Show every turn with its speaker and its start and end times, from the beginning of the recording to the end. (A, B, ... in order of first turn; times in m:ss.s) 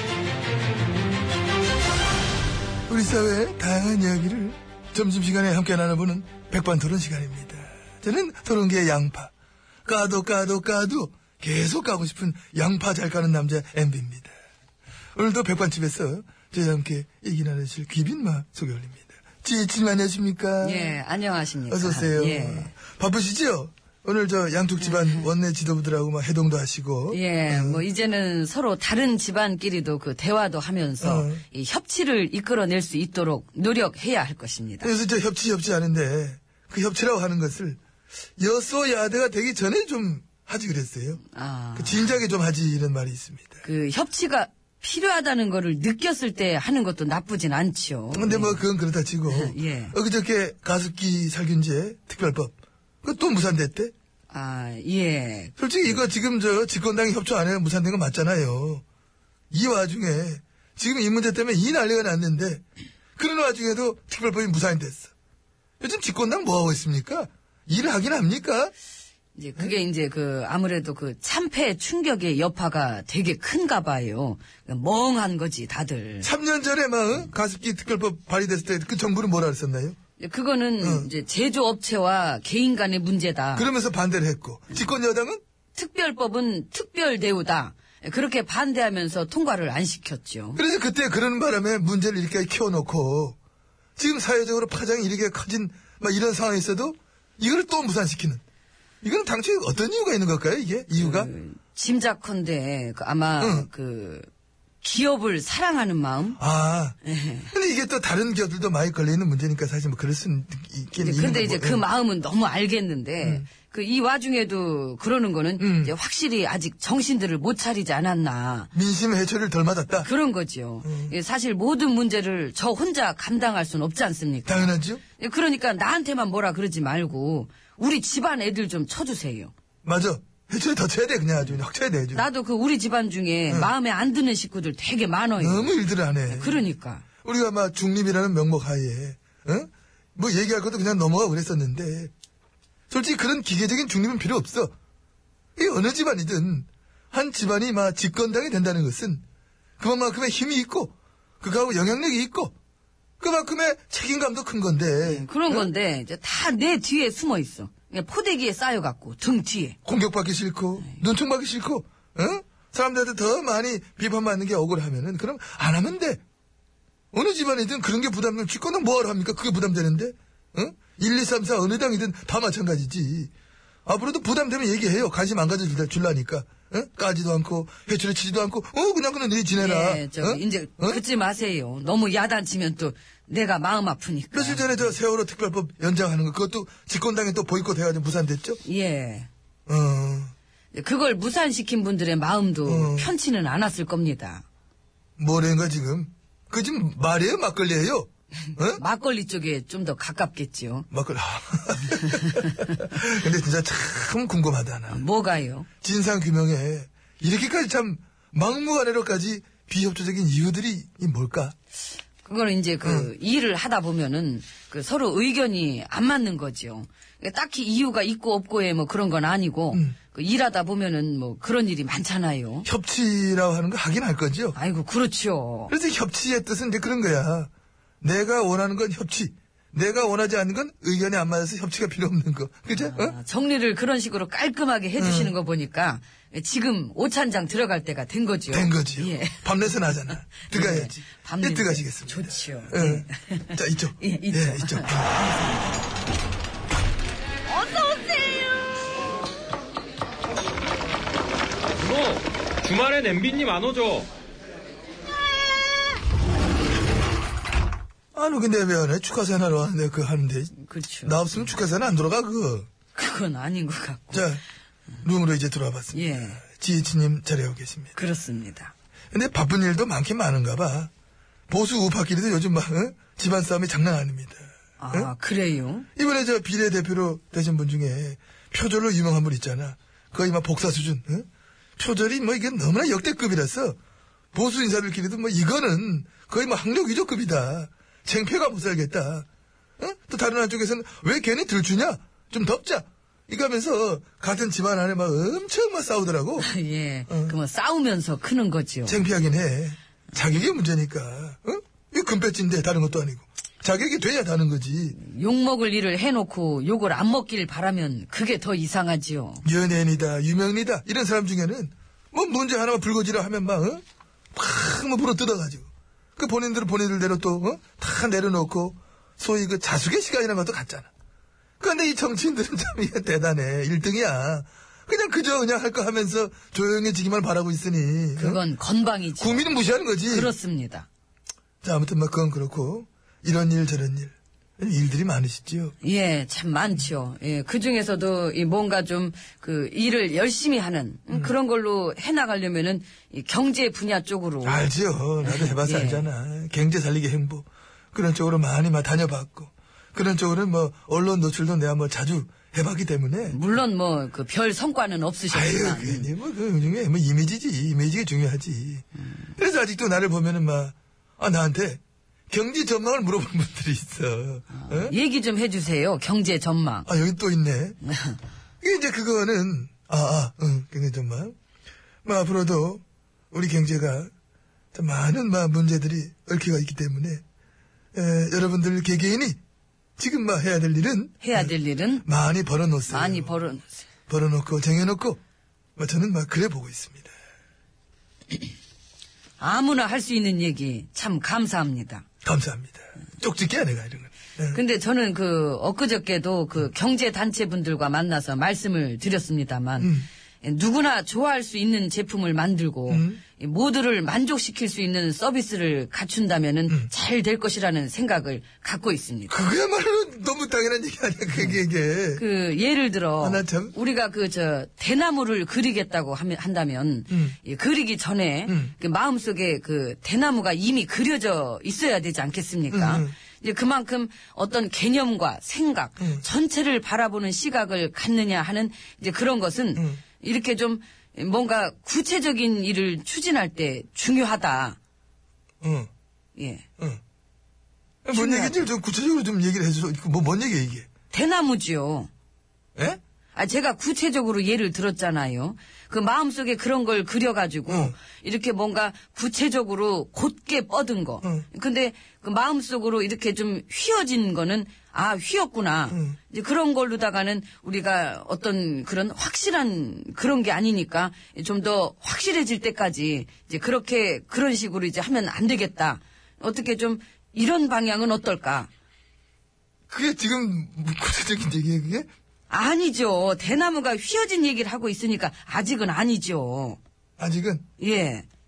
0:02.9-0:09.3 A
0:09.8-0:14.3 A
0:15.1-0:21.0 A
0:20.6-0:22.7 B
0:21.7-0:27.8 A
0:24.8-0:25.3 B
0:27.1-0:34.9 B
0:31.0-0:31.4 A
0:34.8-0:37.8 A
0:38.4-0:41.2 A
0:41.3-0:42.2 B
0:41.8-0:43.6 A
0:43.6-0:48.6 B
0:48.1-0:53.9 A
0:49.3-0:50.0 B
0:54.3-0:55.6 B
0:55.6-0:58.8 A
0:59.5-1:02.6 A
1:03.2-1:05.1 A
1:05.8-1:08.7 A
1:09.4-1:16.3 B
1:16.2-1:20.0 A
1:20.2-1:23.7 B
1:20.8-1:21.1 A
1:23.6-1:25.4 A
1:25.7-1:30.6 B
1:30.6-1:33.4 A
1:34.0-1:38.4 A
1:39.0-1:41.3 A
1:41.0-1:44.3 B
1:43.4-1:43.7 A
1:44.8-1:46.4 B
1:46.4-1:47.0 A
1:47.0-1:47.5 B
1:47.5-1:51.8 A
1:50.9-1:58.7 B
1:53.2-1:53.5 A
1:55.6-1:55.9 A
1:58.7-2:00.1 A
2:00.0-2:09.5 B
2:00.8-2:01.1 A
2:04.4-2:05.0 A
2:09.8-2:12.3 A
2:11.4-2:17.0 B
2:15.4-2:16.6 A
2:17.2-2:22.1 A
2:22.9-2:24.7 A
2:25.6-2:29.2 A
2:29.8-2:32.5 A
2:33.2-2:35.7 A
2:35.0-2:39.8 B
2:39.8-2:46.2 A
2:47.1-2:53.3 A
2:53.8-3:01.0 A
2:59.5-3:04.9 B
3:04.3-3:08.6 A
3:08.6-3:09.3 B
3:09.7-3:10.3 A
3:10.7-3:14.4 B
3:12.6-3:13.1 A
3:15.2-3:18.8 A
3:18.7-3:20.9 B
3:20.9-3:25.0 A
3:22.1-3:22.6 B
3:24.9-3:25.7 B
3:25.8-3:31.5 A
3:32.2-3:42.7 B
3:32.8-3:33.1 A
3:42.6-3:44.6 A
3:44.5-3:45.7 B
3:45.7-3:47.5 A
3:48.0-3:53.2 A
3:52.7-4:04.9 B
3:55.0-3:55.3 A
3:58.5-4:05.4 A
4:07.5-4:08.5 B
4:11.8-4:14.1 C
4:18.1-4:22.7 A
4:20.5-4:21.2 B
4:22.9-4:24.3 B
4:24.1-4:24.4 A
4:25.0-4:27.9 A
4:25.9-4:26.4 B
4:27.9-4:28.7 B
4:29.1-4:30.9 A
4:31.5-4:35.1 A
4:34.8-4:35.9 B
4:36.0-4:43.8 A
4:44.3-4:49.2 A
4:49.8-4:56.5 A
4:56.4-4:59.0 B
4:57.1-4:57.4 A
4:58.8-5:05.0 A
5:04.9-5:09.4 B
5:09.4-5:13.8 A
5:14.3-5:20.9 A
5:21.6-5:28.4 A
5:28.2-5:29.5 B
5:29.2-5:30.3 A
5:30.1-5:30.9 B
5:31.6-5:35.7 A
5:35.8-5:44.7 B
5:44.4-5:53.4 A
5:45.2-5:46.1 B
5:53.3-5:56.1 B
5:55.3-6:04.9 A
6:04.6-6:06.9 B
6:06.9-6:07.8 A
6:07.8-6:08.2 B
6:08.6-6:11.3 A
6:12.0-6:14.1 A
6:14.7-6:17.2 A
6:17.9-6:19.4 A
6:20.0-6:23.3 A
6:21.2-6:22.0 B
6:22.9-6:23.8 B
6:24.1-6:25.2 A
6:25.8-6:27.1 A
6:29.4-6:32.0 B
6:32.2-6:34.6 A
6:34.5-6:49.4 B
6:39.8-6:40.1 A
6:42.9-6:43.2 A
6:49.3-6:52.2 A
6:52.2-7:14.8 B
6:53.2-6:53.7 A
6:57.1-6:57.4 A
6:58.5-6:58.7 A
7:02.7-7:03.1 A
7:09.7-7:10.0 A
7:15.6-7:15.9 A
7:16.4-7:16.6 B
7:18.0-7:20.9 A
7:18.1-7:18.6 B
7:21.1-7:22.1 B
7:23.3-7:48.7 B
7:27.7-7:28.0 A
7:35.9-7:36.2 A
7:49.9-7:52.1 A
7:52.5-7:56.8 B
7:57.2-7:57.6 A
7:57.8-7:58.2 B